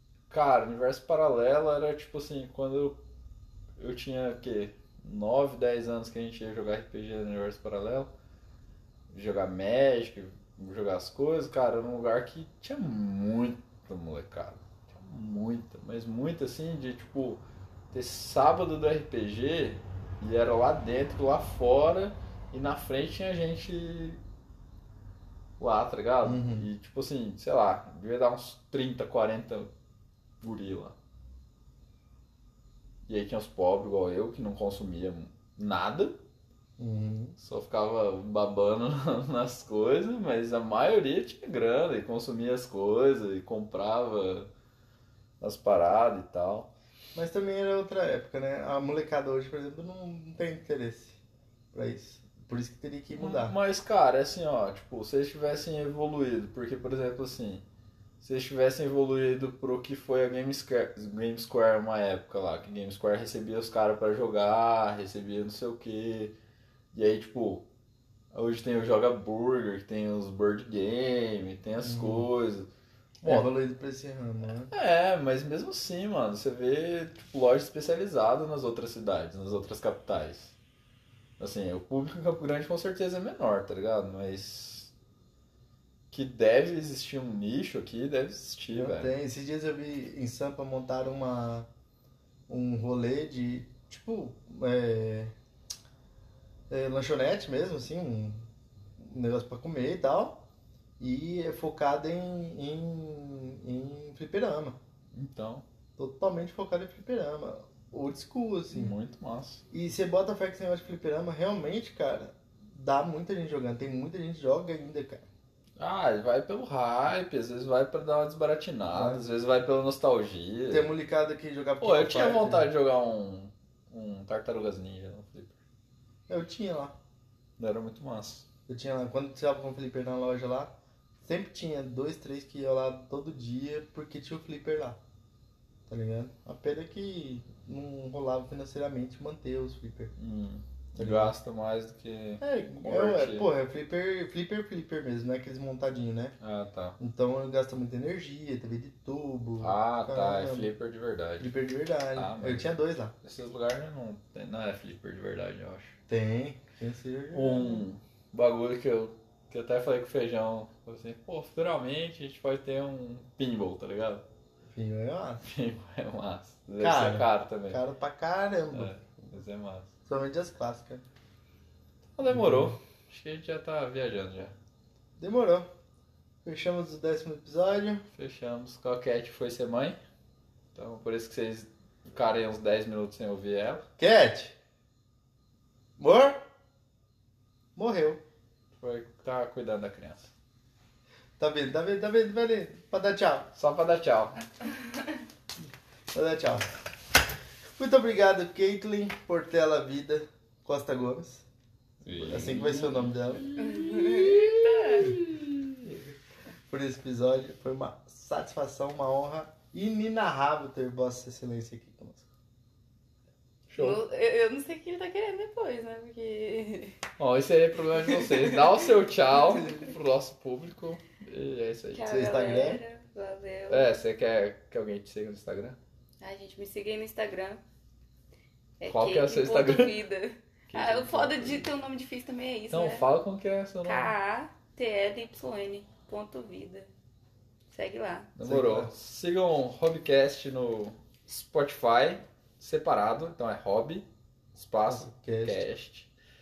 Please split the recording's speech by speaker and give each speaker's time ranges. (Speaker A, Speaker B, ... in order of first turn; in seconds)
Speaker A: 0.3-3.0, 3.8-8.1, 9.1-24.2, 25.6-29.7, 30.4-30.9, 33.1-36.2, 37.4-44.5, 45.4-46.7, 53.1-57.6, 58.2-66.3, 66.9-67.7, 68.3-72.7, 73.2-73.5, 74.7-80.5, 81.4-84.9, 86.1-89.1, 105.1-105.6, 108.7-109.6, 115.8-120.9, 121.8-125.6, 127.6-128.4, 140.2-143.5, 146.4-146.9, 149.6-151.5, 152.1-152.7, 153.2-156.0, 157.3-164.2, 165.4-167.8, 168.7-169.9, 172.2-174.6, 178.1-180.0, 180.7-183.8, 188.8-190.3, 193.6-194.4, 202.0-206.1, 213.7-214.0, 217.2-222.1, 223.7-225.8, 228.9-230.0, 230.7-231.7, 232.7-234.1, 238.4-246.1
Speaker B: 26.2-26.7, 36.8-37.4, 47.1-51.2, 51.7-53.5, 71.8-72.3, 73.2-74.7, 88.7-91.7, 92.5-95.3, 96.7-100.4, 101.0-104.8, 106.0-109.0, 109.7-115.2, 118.9-119.2, 120.7-122.7, 126.3-126.9, 128.7-135.0, 135.9-140.1, 140.9-141.3, 142.4-146.3, 147.0-150.7, 151.4-153.1, 156.1-157.8, 164.7-165.4, 166.8-168.9, 170.1-171.0, 172.3-172.8, 175.2-175.7, 176.4-178.0, 184.0-184.5, 186.0-186.4, 187.8-188.2, 191.4-193.5, 196.1-196.8, 197.8-201.4, 202.2-203.5, 206.7-212.2, 222.1-222.8, 238.4-238.9, 244.9-245.6
Speaker C: 203.6-205.2, 213.8-217.0, 218.1-218.8, 219.5-219.9, 221.9-223.9, 226.2-227.6, 228.8-233.1, 233.8-236.9, 237.7-238.3